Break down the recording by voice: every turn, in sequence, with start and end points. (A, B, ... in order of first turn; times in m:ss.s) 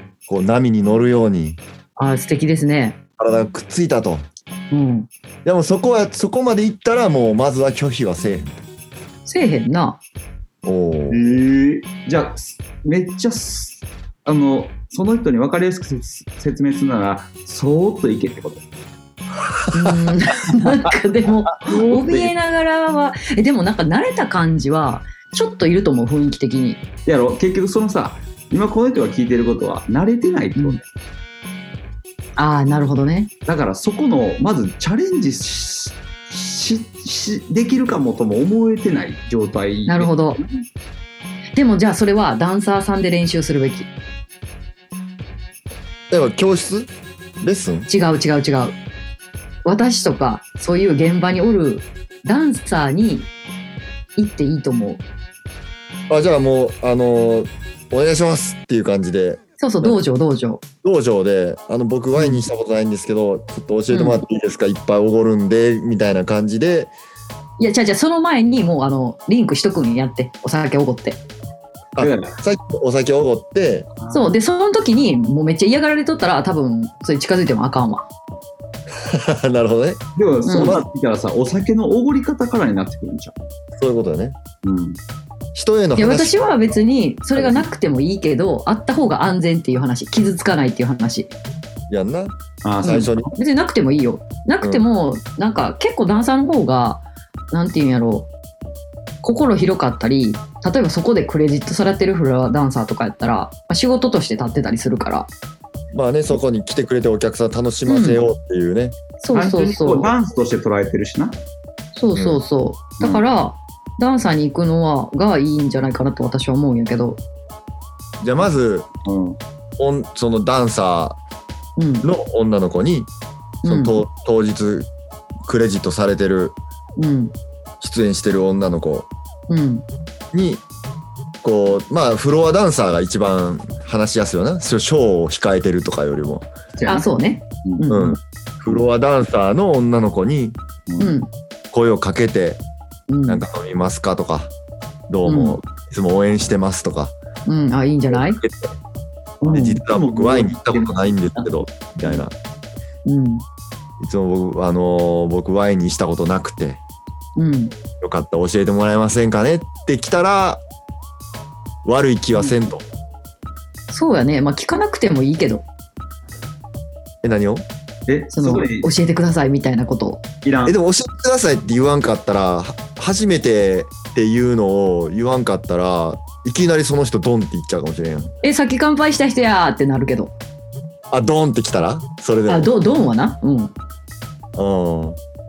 0:00.3-0:01.6 A
0:02.0-0:03.0 B
0:03.2-0:04.3 A
0:04.7-0:05.1 B
0:05.4-0:08.6 A
0:09.3-0:10.0 B
0:10.6-0:11.2 A
0:11.1-0:18.6 C
0:19.7-0:26.8 B
0:21.6-0:22.3 C
0:27.1-0:30.9 C
0:32.4-0:33.3 B
0:33.5-0:40.6 C
0:39.9-0:40.4 B
0:41.6-0:43.9 B
0:46.1-0:47.9 A
0:47.9-0:48.8 B
0:49.6-0:53.3 B
0:54.2-0:55.0 B
0:56.1-1:00.0 A
0:59.6-1:00.6 B
1:00.8-1:06.9 A
1:02.2-1:02.4 B
1:03.9-1:04.2 B
1:07.6-1:11.2 B
1:12.0-1:13.9 A
1:12.0-1:12.4 C
1:14.0-1:14.3 C
1:14.1-1:18.1 B
1:18.9-1:20.0 A
1:20.2-1:23.3 C
1:20.5-1:20.8 B
1:20.5-1:20.8 A
1:23.8-1:24.4 A
1:24.6-1:25.0 C
1:25.6-1:26.4 A
1:26.0-1:31.3 B
1:27.4-1:27.7 A
1:31.9-1:33.3 A
1:32.6-1:33.3 C
1:32.8-1:38.3 B
1:39.2-1:45.3 B
1:45.9-1:49.0 A
1:47.9-1:48.2 B
1:49.2-1:50.1 B
1:49.3-1:51.4 C
1:52.0-1:57.2 B
1:52.1-1:52.4 A
1:58.2-1:58.9 A
1:59.0-1:59.4 C
1:59.8-2:01.2 A
2:01.8-2:02.1 B
2:02.0-2:03.1 A
2:03.6-2:04.0 B
2:03.6-2:04.9 A
2:05.4-2:06.6 A
2:07.0-2:07.3 B
2:07.8-2:09.1 A
2:09.5-2:09.8 B
2:10.3-2:10.6 A
2:11.4-2:16.5 A
2:16.8-2:17.1 C
2:16.9-2:18.2 B
2:17.9-2:20.6 A
2:20.9-2:21.1 C
2:21.0-2:21.3 B
2:21.7-2:22.6 A
2:23.1-2:23.4 B
2:23.3-2:24.5 A
2:25.1-2:27.2 A
2:25.2-2:25.6 B
2:27.5-2:28.4 B
2:28.1-2:28.8 A
2:29.4-2:29.8 B
2:29.5-2:32.3 A
2:29.7-2:31.5 C
2:33.1-2:33.4 B
2:34.0-2:36.8 A
2:37.4-2:37.8 B
2:38.0-2:40.6 A
2:41.8-2:42.8 A
2:43.9-2:45.7 B
2:47.2-2:47.7 A
2:48.1-2:48.9 C
2:48.3-2:50.2 B
2:50.4-2:50.8 C
2:50.6-2:58.3 A
2:58.4-3:00.3 B
3:01.1-3:02.7 A
3:02.5-3:03.7 B
3:04.6-3:05.2 A